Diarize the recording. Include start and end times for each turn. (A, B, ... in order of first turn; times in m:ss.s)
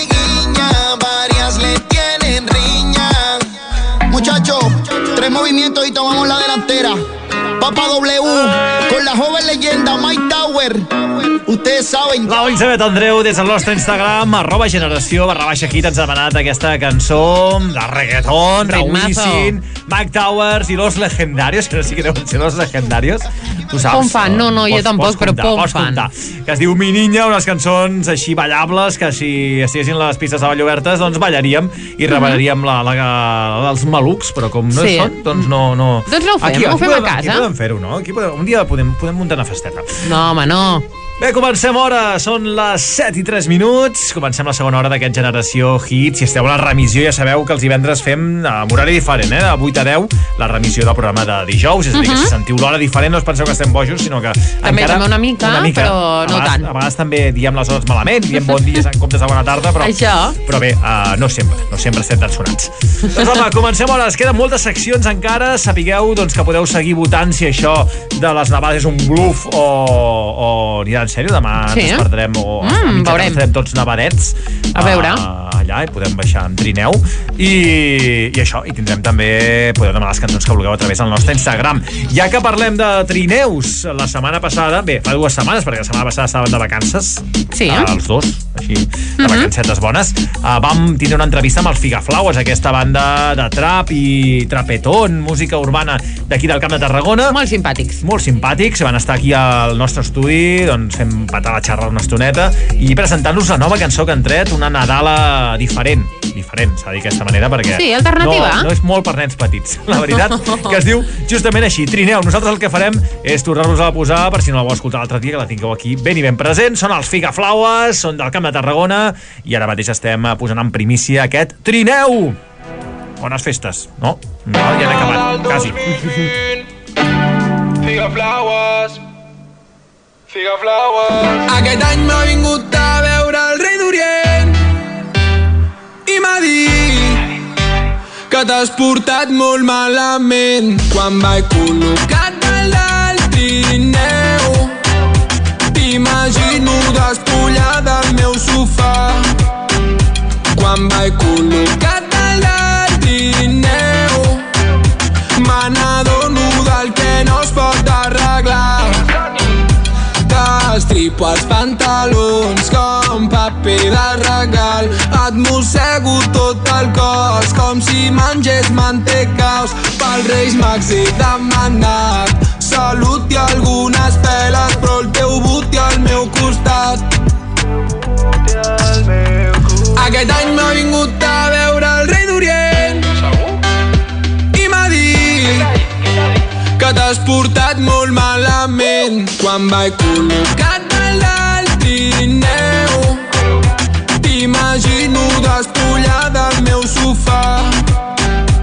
0:12.2-0:40.0 A
0:18.6-0:19.5 B
0:23.9-0:26.0 B
0:32.1-0:32.4 B
0:34.7-0:35.5 B
0:36.1-0:37.4 B
0:40.0-0:40.8 B
0:41.2-1:37.4 A
0:52.0-0:52.3 B
0:54.6-0:56.7 B
0:59.8-1:00.4 B
1:11.7-1:12.0 B
1:12.6-1:13.4 B
1:14.8-1:15.2 B
1:27.5-1:27.9 B
1:29.2-1:29.5 B
1:37.3-1:38.0 B
1:38.0-2:02.4 A
1:47.7-1:48.7 B
1:50.3-1:50.6 B
2:03.2-2:05.8 A
2:04.8-2:06.5 C
2:07.8-2:09.0 C
2:10.3-2:14.6 C
2:16.0-2:17.2 C
2:18.3-2:24.7 C
2:25.7-2:29.3 C
2:30.5-2:34.4 C
2:35.4-2:39.0 C
2:40.2-2:57.0 C
2:59.9-3:03.1 C
3:04.5-3:05.7 C
3:06.8-3:13.2 C
3:14.2-3:17.8 C